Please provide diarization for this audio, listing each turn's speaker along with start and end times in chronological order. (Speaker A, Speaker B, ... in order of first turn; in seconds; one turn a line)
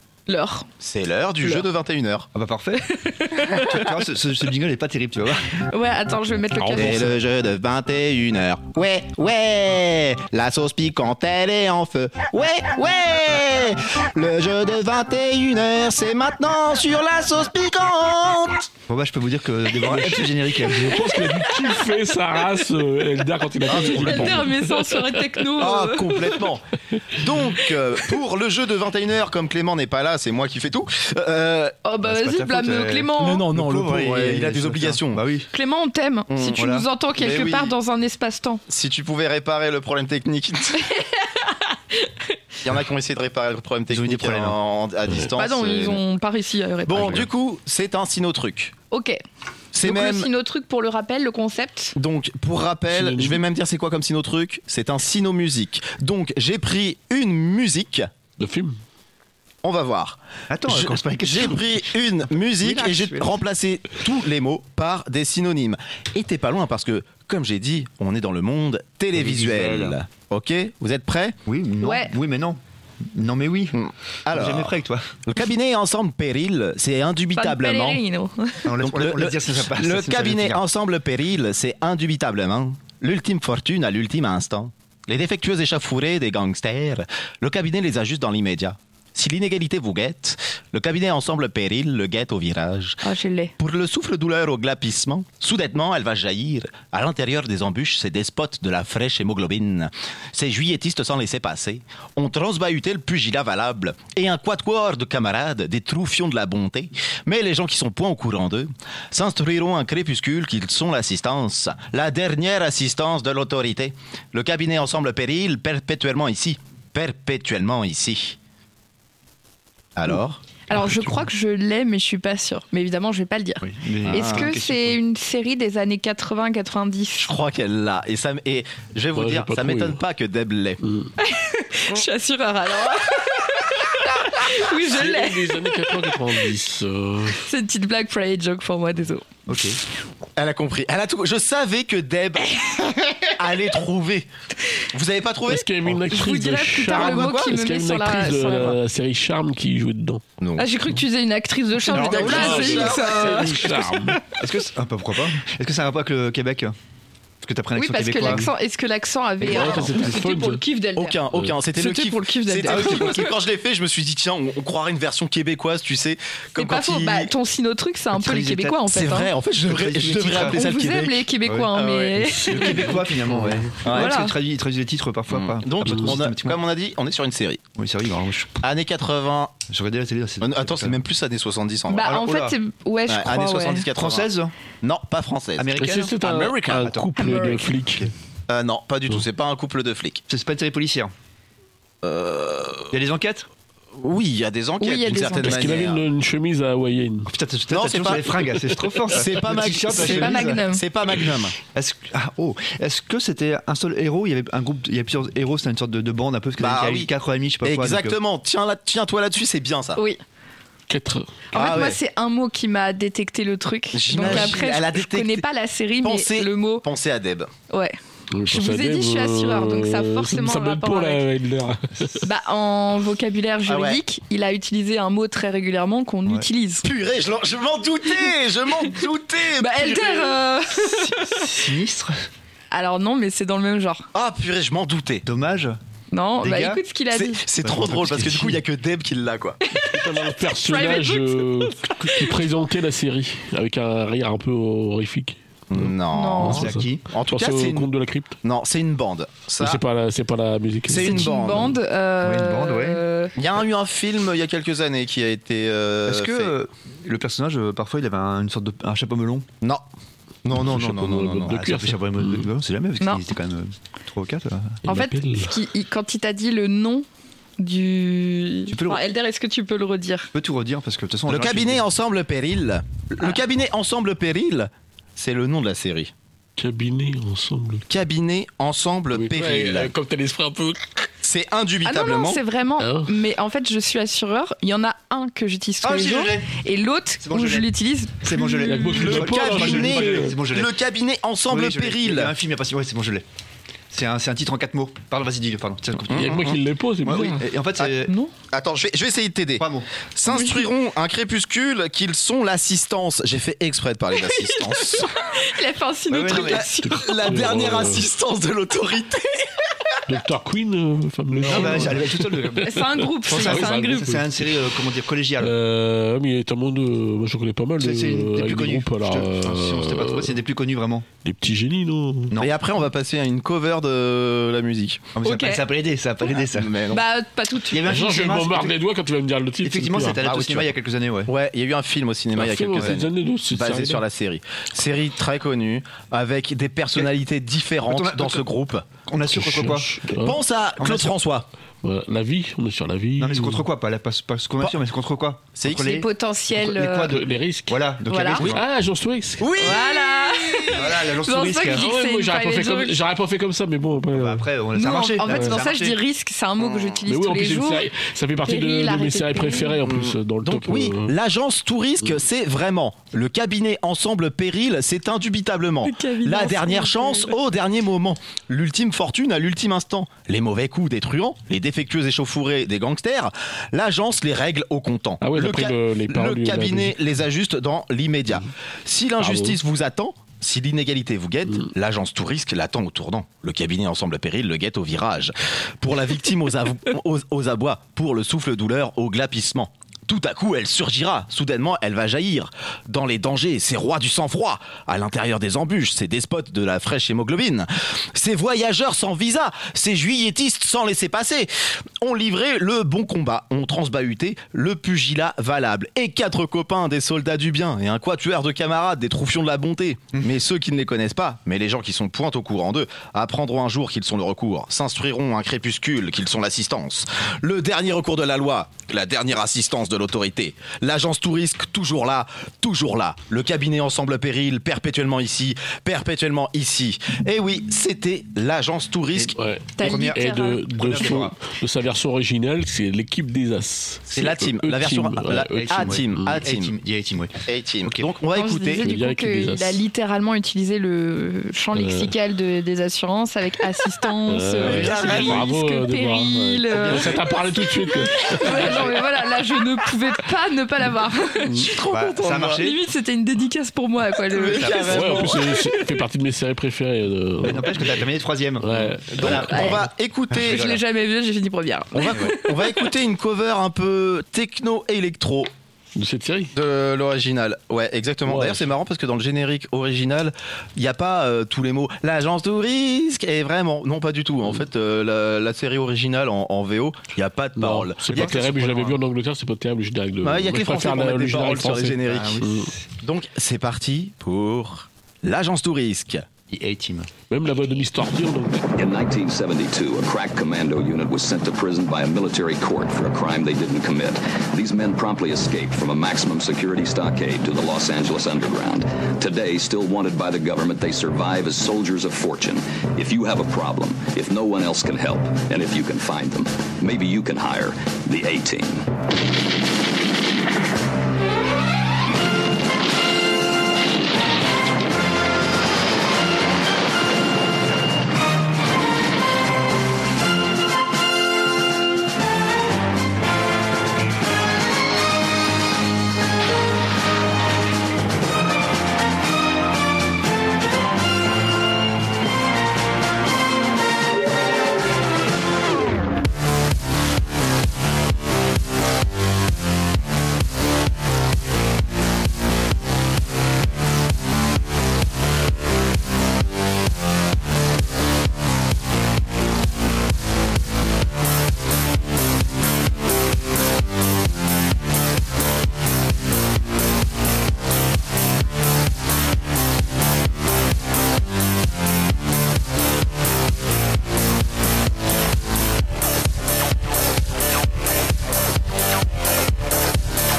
Speaker A: 0.3-0.7
Speaker B: 0.8-2.3
Speaker C: 2.3-2.9
Speaker A: 2.9-3.9
Speaker C: 3.5-5.7
Speaker A: 5.7-7.1
Speaker D: 6.6-7.0
Speaker B: 6.8-18.7
Speaker C: 18.9-21.2
Speaker D: 19.8-25.1
Speaker B: 23.6-24.4
Speaker A: 23.8-26.4
Speaker B: 25.6-31.7
Speaker A: 31.8-33.4
Speaker C: 32.0-35.5
Speaker B: 33.1-35.2
Speaker A: 35.5-38.6
Speaker B: 36.3-36.6
Speaker C: 36.5-36.9
Speaker B: 37.1-37.7
Speaker B: 38.7-40.9
Speaker A: 40.9-42.2
Speaker B: 42.6-46.0
Speaker C: 43.9-44.6
Speaker A: 45.4-47.3
Speaker B: 46.9-48.7
Speaker C: 46.9-47.2
Speaker A: 48.9-49.2
Speaker B: 49.7-50.3
Speaker A: 49.8-51.9
Speaker B: 51.9-58.1
Speaker D: 52.9-53.4
Speaker D: 58.4-58.8
Speaker B: 59.6-71.3
Speaker C: 60.5-62.0
Speaker C: 62.6-63.4
Speaker C: 69.1-70.0
Speaker C: 71.5-75.1
Speaker A: 71.8-72.1
Speaker B: 73.7-74.7
Speaker B: 75.2-78.0
Speaker A: 77.3-78.7
Speaker C: 78.6-80.6
Speaker B: 78.8-93.0
Speaker A: 93.0-93.5
Speaker B: 93.6-118.4
Speaker B: 120.0-120.4
Speaker A: 120.7-127.3
Speaker C: 123.6-125.0
Speaker B: 124.0-124.5
Speaker B: 127.2-130.8
Speaker D: 129.1-130.0
Speaker D: 130.8-131.1
Speaker A: 131.2-136.3
Speaker D: 134.7-137.4
Speaker A: 137.3-139.2
Speaker C: 139.4-139.8
Speaker B: 140.4-144.3
Speaker B: 144.9-145.7
Speaker D: 145.5-150.2
Speaker A: 146.1-148.8
Speaker B: 146.9-147.5
Speaker B: 150.4-150.7
Speaker A: 150.6-154.1
Speaker C: 151.9-153.5
Speaker B: 151.9-153.9
Speaker D: 152.1-154.2
Speaker C: 154.3-156.7
Speaker C: 157.4-158.5
Speaker A: 157.8-161.2
Speaker D: 159.4-160.6
Speaker B: 159.4-159.8
Speaker B: 160.9-167.3
Speaker A: 161.7-163.3
Speaker C: 162.7-163.3
Speaker A: 166.6-169.3
Speaker C: 168.1-168.8
Speaker B: 168.8-172.8
Speaker C: 169.6-170.7
Speaker A: 170.4-172.9
Speaker C: 171.4-171.7
Speaker C: 172.4-176.6
Speaker D: 172.5-173.7
Speaker B: 173.8-174.2
Speaker A: 173.9-174.3
Speaker B: 175.3-177.6
Speaker D: 175.8-176.1
Speaker C: 177.8-178.6
Speaker B: 178.6-179.6
Speaker C: 179.7-181.0
Speaker B: 180.4-182.1
Speaker A: 181.9-183.9
Speaker C: 182.0-182.6
Speaker B: 183.1-184.3
Speaker C: 183.9-184.5
Speaker B: 184.8-185.7
Speaker C: 185.6-188.1
Speaker D: 185.8-188.1
Speaker A: 187.2-187.7
Speaker B: 188.5-190.2
Speaker C: 190.3-191.1
Speaker B: 192.0-192.9
Speaker C: 192.9-193.5
Speaker B: 194.0-196.0
Speaker A: 194.8-195.8
Speaker D: 195.4-197.3
Speaker C: 197.2-200.6
Speaker B: 197.7-198.4
Speaker B: 199.1-201.6
Speaker A: 199.9-200.8
Speaker C: 201.7-208.2
Speaker B: 206.6-207.1
Speaker B: 207.6-210.0
Speaker D: 210.9-211.3
Speaker A: 211.5-216.8
Speaker B: 211.5-212.0
Speaker B: 213.9-215.4
Speaker C: 214.2-214.5
Speaker B: 216.0-217.5
Speaker A: 217.7-221.2
Speaker D: 218.3-222.2
Speaker A: 222.2-226.8
Speaker B: 223.7-224.0
Speaker B: 226.8-230.4
Speaker A: 229.6-231.5
Speaker C: 230.8-232.1
Speaker A: 232.7-234.1
Speaker B: 234.1-235.2
Speaker C: 235.2-235.8
Speaker A: 236.1-237.4
Speaker C: 236.4-236.8
Speaker B: 237.1-239.6
Speaker C: 237.6-238.6
Speaker A: 239.6-242.3
Speaker D: 239.8-248.4
Speaker B: 245.7-247.9
Speaker A: 246.1-246.6
Speaker C: 246.4-247.0
Speaker B: 248.4-249.8
Speaker D: 249.6-251.3
Speaker B: 250.9-251.8
Speaker A: 251.0-253.3
Speaker C: 252.2-253.0
Speaker B: 253.3-256.5
Speaker C: 256.1-259.5
Speaker B: 260.4-261.6
Speaker D: 260.5-262.5
Speaker C: 261.4-264.8
Speaker D: 264.8-265.5
Speaker A: 264.9-267.1
Speaker A: 267.6-270.3
Speaker C: 268.7-269.0
Speaker C: 270.3-271.9
Speaker B: 271.3-276.1
Speaker D: 276.6-277.8
Speaker B: 277.9-279.9
Speaker D: 279.1-281.1
Speaker B: 281.2-282.4
Speaker A: 281.8-289.0
Speaker D: 282.8-283.1
Speaker C: 285.8-286.6
Speaker C: 287.2-287.7
Speaker C: 288.2-290.8
Speaker D: 288.6-290.4
Speaker B: 289.0-292.3
Speaker C: 291.5-293.2
Speaker C: 293.9-296.4
Speaker D: 296.1-297.5
Speaker B: 296.1-296.6
Speaker C: 297.0-298.1
Speaker A: 298.1-298.3
Speaker B: 298.5-305.1
Speaker C: 299.6-299.9
Speaker A: 300.3-300.6
Speaker A: 304.3-307.1
Speaker C: 306.1-306.7
Speaker B: 306.3-309.4
Speaker D: 306.8-308.1
Speaker D: 310.1-314.6
Speaker C: 311.3-315.5
Speaker B: 311.4-311.8
Speaker A: 312.6-314.2
Speaker D: 315.4-320.4
Speaker C: 317.8-321.1
Speaker D: 321.2-322.3
Speaker B: 322.4-325.1
Speaker C: 325.1-326.7
Speaker A: 325.2-325.6
Speaker B: 326.3-327.0
Speaker A: 326.9-327.9
Speaker C: 327.7-328.8
Speaker D: 327.9-330.2
Speaker C: 329.6-331.3
Speaker B: 330.2-330.7
Speaker B: 331.2-338.9
Speaker D: 332.3-334.0
Speaker C: 337.8-338.5
Speaker C: 339.0-341.2
Speaker D: 339.3-340.4
Speaker B: 340.2-341.5
Speaker D: 341.8-343.6
Speaker C: 343.2-348.6
Speaker B: 345.6-345.9
Speaker A: 345.8-347.1
Speaker D: 347.1-347.8
Speaker A: 348.1-348.4
Speaker D: 348.4-349.5
Speaker B: 349.4-350.8
Speaker A: 349.6-353.0
Speaker C: 350.7-351.9
Speaker D: 351.7-354.4
Speaker C: 354.1-356.0
Speaker A: 354.7-357.9
Speaker D: 355.2-355.6
Speaker B: 356.6-356.9
Speaker D: 357.1-361.1
Speaker A: 358.4-359.8
Speaker B: 359.9-429.3
Speaker A: 365.8-367.3
Speaker D: 375.2-377.0
Speaker D: 379.2-379.6
Speaker C: 429.1-431.4
Speaker D: 429.4-436.4
Speaker A: 429.8-430.6
Speaker B: 434.1-436.7
Speaker C: 435.5-438.1
Speaker B: 437.4-438.9
Speaker A: 438.3-451.7
Speaker D: 438.8-439.8
Speaker D: 441.7-442.1
Speaker D: 444.3-449.0
Speaker C: 444.6-445.4
Speaker B: 444.6-445.4
Speaker D: 451.4-451.7
Speaker B: 451.6-452.6
Speaker C: 451.9-452.8
Speaker A: 452.5-456.0
Speaker B: 454.3-455.6
Speaker C: 454.5-455.1
Speaker D: 454.8-458.0
Speaker C: 457.4-460.8
Speaker D: 458.6-459.7
Speaker B: 459.1-460.8
Speaker A: 459.5-459.8
Speaker A: 460.3-462.9
Speaker B: 461.9-465.5
Speaker D: 465.9-466.5
Speaker B: 466.5-478.5
Speaker D: 468.2-468.7
Speaker D: 477.6-482.7
Speaker C: 478.1-479.0
Speaker B: 480.2-482.4
Speaker C: 482.0-482.9
Speaker B: 483.0-486.2
Speaker C: 486.5-487.1
Speaker D: 487.3-488.6
Speaker E: 488.7-508.9